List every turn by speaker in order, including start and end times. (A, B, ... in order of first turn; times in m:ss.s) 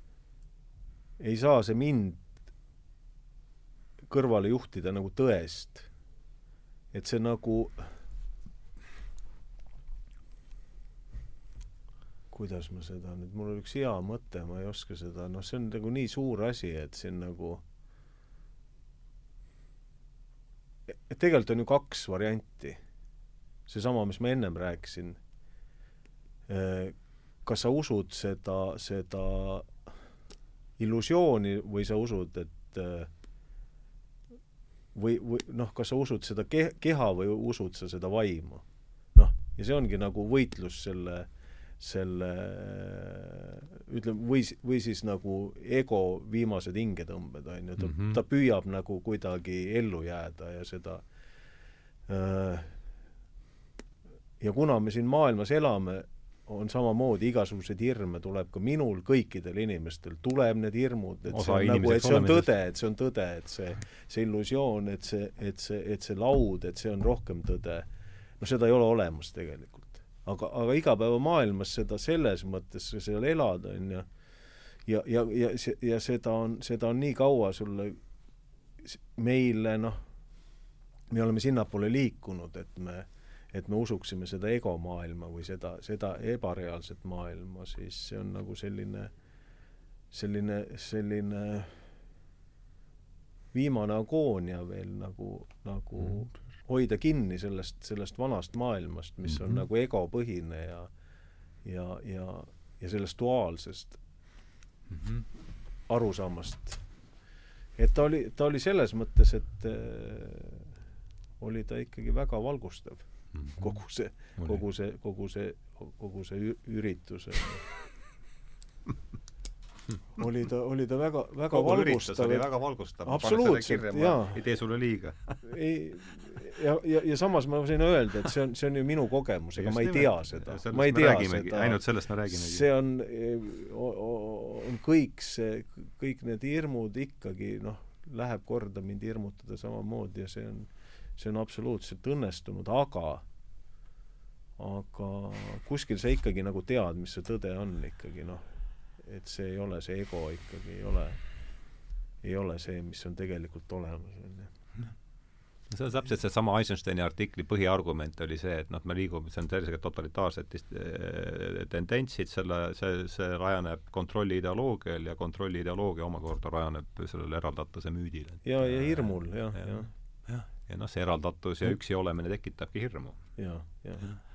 0:01.2-0:02.2 A
0:04.1-0:05.9 A
0:06.9-0:07.8 A
0:12.3-0:17.6 A
0:20.9-0:22.8 A
0:23.7-0:25.2 A
0:26.5-0:29.7 A
0:30.8-0:33.1 A
0:34.9-0:41.3 A
0:41.8-0:51.0 A
0:47.8-0:48.2 B
0:52.1-0:52.7 A
0:54.4-1:07.8 A
1:01.3-1:02.5 B
1:08.4-1:14.1 A
1:14.8-1:18.0 A
1:18.8-1:20.0 A
1:21.1-1:29.1 A
1:30.1-1:31.8 A
1:33.5-1:40.9 A
1:39.3-1:39.6 B
1:41.6-1:44.0 A
1:44.9-1:45.3 B
1:45.9-1:46.8 A
1:47.8-1:50.7 A
1:51.4-1:57.6 A
1:53.3-1:53.8 B
1:54.4-1:54.6 B
2:00.2-2:02.5 A
2:01.5-2:05.4 B
2:03.0-2:04.4 A
2:05.4-2:23.2 A
2:09.6-2:12.7 B
2:24.6-2:28.4 A
2:29.0-2:31.2 A
2:32.2-2:34.5 A
2:35.6-2:53.4 B
2:48.4-2:49.9 A
2:53.4-2:54.1 A